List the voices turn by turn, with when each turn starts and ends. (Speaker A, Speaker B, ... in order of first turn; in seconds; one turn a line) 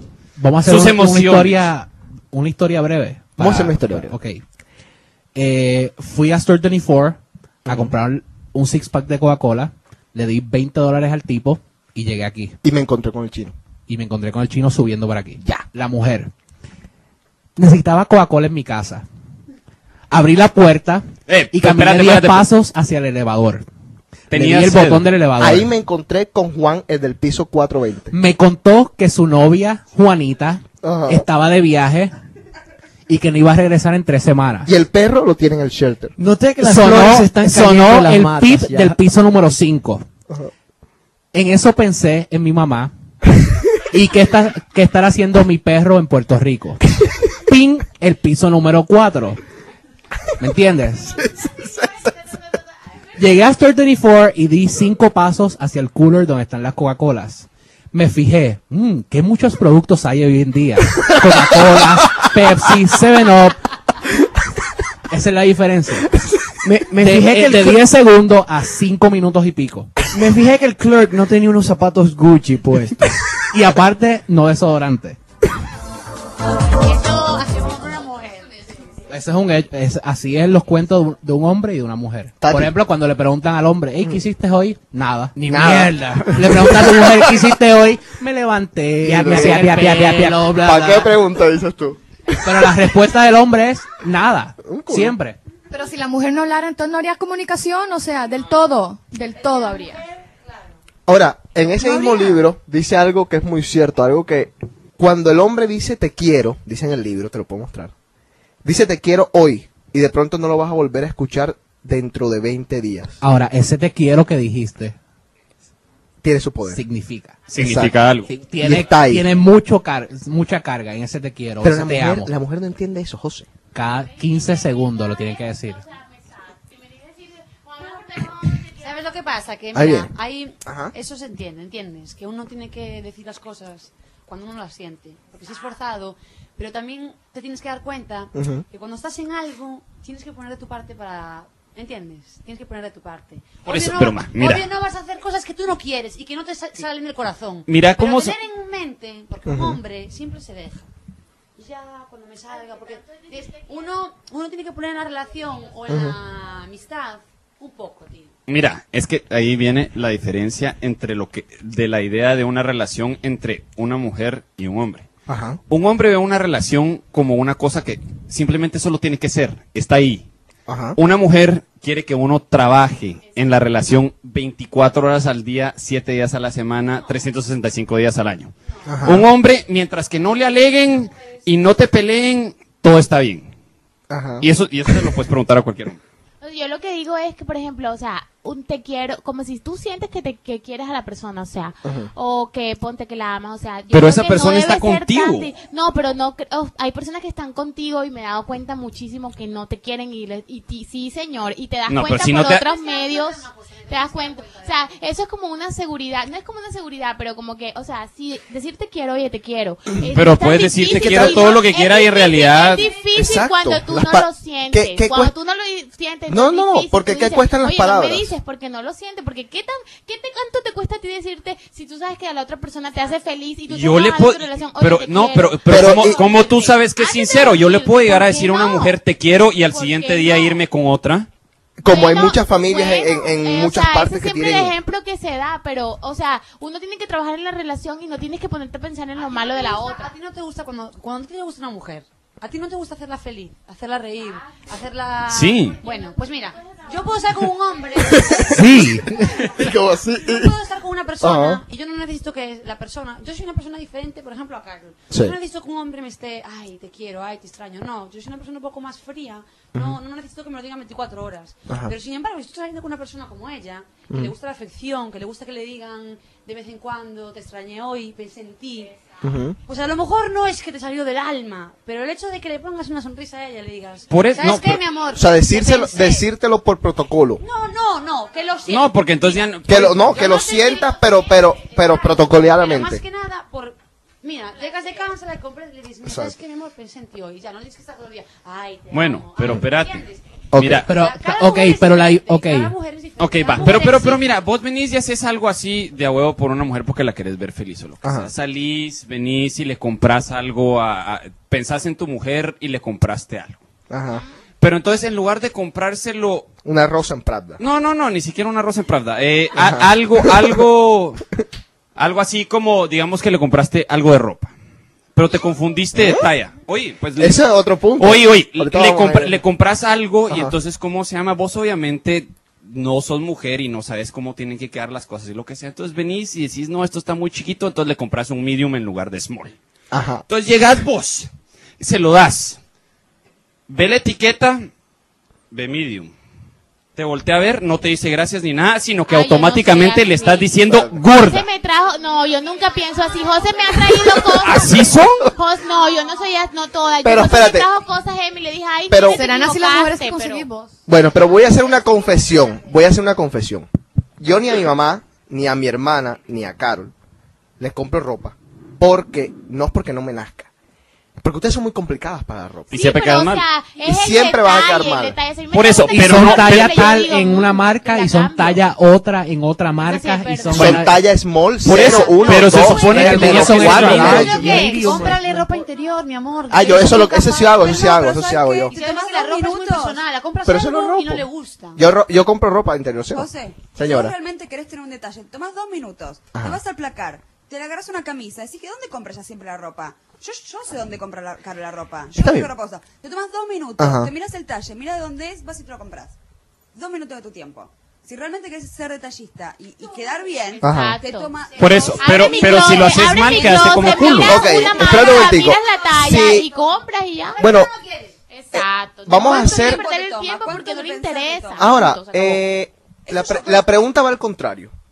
Speaker A: 0.4-4.4
Speaker B: 0.6-1.7
Speaker C: 3.4-4.2
Speaker A: 5.3-12.6
Speaker C: 7.7-7.9
Speaker C: 12.6-13.6
Speaker A: 13.9-16.3
Speaker A: 17.6-19.1
Speaker A: 20.1-23.7
Speaker B: 21.3-22.5
Speaker B: 24.3-25.1
Speaker A: 24.3-25.7
Speaker C: 25.4-28.1
Speaker A: 28.1-32.1
Speaker C: 30.8-31.3
Speaker A: 33.1-34.7
Speaker C: 34.7-36.1
Speaker D: 36.2-39.0
Speaker A: 36.6-40.0
Speaker A: 41.3-42.9
Speaker A: 43.9-49.4
Speaker A: 50.4-51.3
Speaker C: 51.4-51.9
Speaker A: 53.2-63.6
Speaker A: 65.1-66.1
Speaker D: 66.6-67.9
Speaker A: 67.0-69.9
Speaker D: 70.1-73.2
Speaker A: 73.5-75.2
Speaker E: 77.0-78.6
Speaker A: 79.1-91.2
Speaker C: 82.4-82.8
Speaker C: 85.5-87.2
Speaker D: 85.5-86.2
Speaker D: 89.0-90.5
Speaker C: 89.2-89.7
Speaker C: 90.5-92.7
Speaker A: 92.4-95.4
Speaker C: 94.6-95.2
Speaker F: 95.7-100.0
Speaker E: 99.4-100.7
Speaker C: 101.1-107.9
Speaker C: 108.6-113.2
Speaker A: 113.2-115.0
Speaker C: 116.2-116.8
Speaker A: 116.7-122.3
Speaker B: 117.5-118.3
Speaker C: 117.6-119.3
Speaker C: 121.6-123.5
Speaker A: 123.7-125.8
Speaker G: 124.1-128.8
Speaker E: 128.8-150.9
Speaker C: 129.7-130.1
Speaker C: 130.7-130.9
Speaker C: 138.3-138.6
Speaker B: 143.7-144.7
Speaker B: 147.7-148.4
Speaker C: 149.5-149.8
Speaker E: 151.6-158.3
Speaker C: 155.9-156.2
Speaker B: 158.5-165.1
Speaker C: 165.3-165.6
Speaker B: 165.7-170.2
Speaker C: 170.7-171.0
Speaker B: 171.0-183.5
Speaker C: 178.9-179.3
Speaker C: 184.1-184.5
Speaker B: 184.4-186.0
Speaker G: 186.4-229.0
Speaker C: 191.8-192.1
Speaker B: 193.9-195.5
Speaker B: 201.9-202.7
Speaker E: 202.5-204.9
Speaker B: 210.1-212.8
Speaker C: 211.0-211.5
Speaker C: 213.2-215.3
Speaker C: 216.3-218.3
Speaker B: 223.7-231.3
Speaker C: 225.7-226.2
Speaker G: 229.7-230.6
Speaker C: 231.8-234.8
Speaker G: 231.8-240.1
Speaker E: 239.2-248.8
Speaker B: 245.3-245.8
Speaker C: 248.2-248.6
Speaker A: 248.5-249.4
Speaker C: 249.4-250.5
Speaker E: 250.2-268.9
Speaker C: 251.2-251.6
Speaker C: 269.2-269.6
Speaker E: 269.7-276.3
Speaker B: 274.1-274.8
Speaker C: 275.1-277.4
Speaker E: 277.4-281.1
Speaker B: 278.7-280.1
Speaker C: 279.7-283.0
Speaker E: 281.7-290.2
Speaker C: 286.0-286.4
Speaker B: 288.9-290.0
Speaker C: 290.5-290.9
Speaker B: 290.5-290.9
Speaker A: 290.9-292.7
Speaker E: 290.9-294.3
Speaker B: 293.2-303.6
Speaker C: 298.0-298.3
Speaker C: 303.9-304.2
Speaker B: 304.6-306.5
Speaker C: 306.6-307.6
Speaker B: 307.6-311.2
Speaker C: 309.6-310.6
Speaker B: 312.0-314.5
Speaker B: 315.1-317.4
Speaker C: 315.9-316.3
Speaker C: 317.2-319.4
Speaker B: 318.0-329.6
Speaker C: 320.3-320.6
Speaker C: 329.9-330.2
Speaker B: 330.3-331.3
Speaker B: 331.8-332.6
Speaker B: 333.7-334.7
Speaker B: 335.5-336.1
Speaker B: 337.0-341.5
Speaker G: 339.1-340.5
Speaker C: 340.7-341.0
Speaker G: 341.1-350.5
Speaker B: 344.4-345.2
Speaker C: 347.0-347.7
Speaker C: 348.9-349.3
Speaker F: 349.1-350.8
Speaker C: 350.9-353.7
Speaker C: 354.2-356.9
Speaker C: 357.6-360.5
Speaker C: 361.2-362.7
Speaker B: 362.7-363.4
Speaker G: 362.7-368.6
Speaker C: 363.8-365.2
Speaker B: 365.5-367.0
Speaker A: 365.9-371.0
Speaker G: 369.8-370.8
Speaker C: 370.5-374.8
Speaker B: 371.6-374.4
Speaker A: 372.5-375.4
Speaker E: 373.7-377.6
Speaker C: 376.5-378.7
Speaker H: 377.2-380.0
Speaker E: 378.7-381.8
Speaker C: 380.4-384.1
Speaker H: 383.1-396.1
Speaker C: 392.2-392.5
Speaker C: 393.8-394.1
Speaker H: 396.7-402.8
Speaker G: 400.6-401.3
Speaker C: 400.6-401.0
Speaker B: 401.6-404.4
Speaker G: 402.0-407.5
Speaker C: 404.2-406.5
Speaker E: 404.6-405.9
Speaker C: 407.4-407.7
Speaker E: 407.4-408.1
Speaker G: 408.3-412.4
Speaker C: 408.5-409.8
Speaker H: 409.1-411.8
Speaker C: 411.6-414.7
Speaker H: 413.1-413.7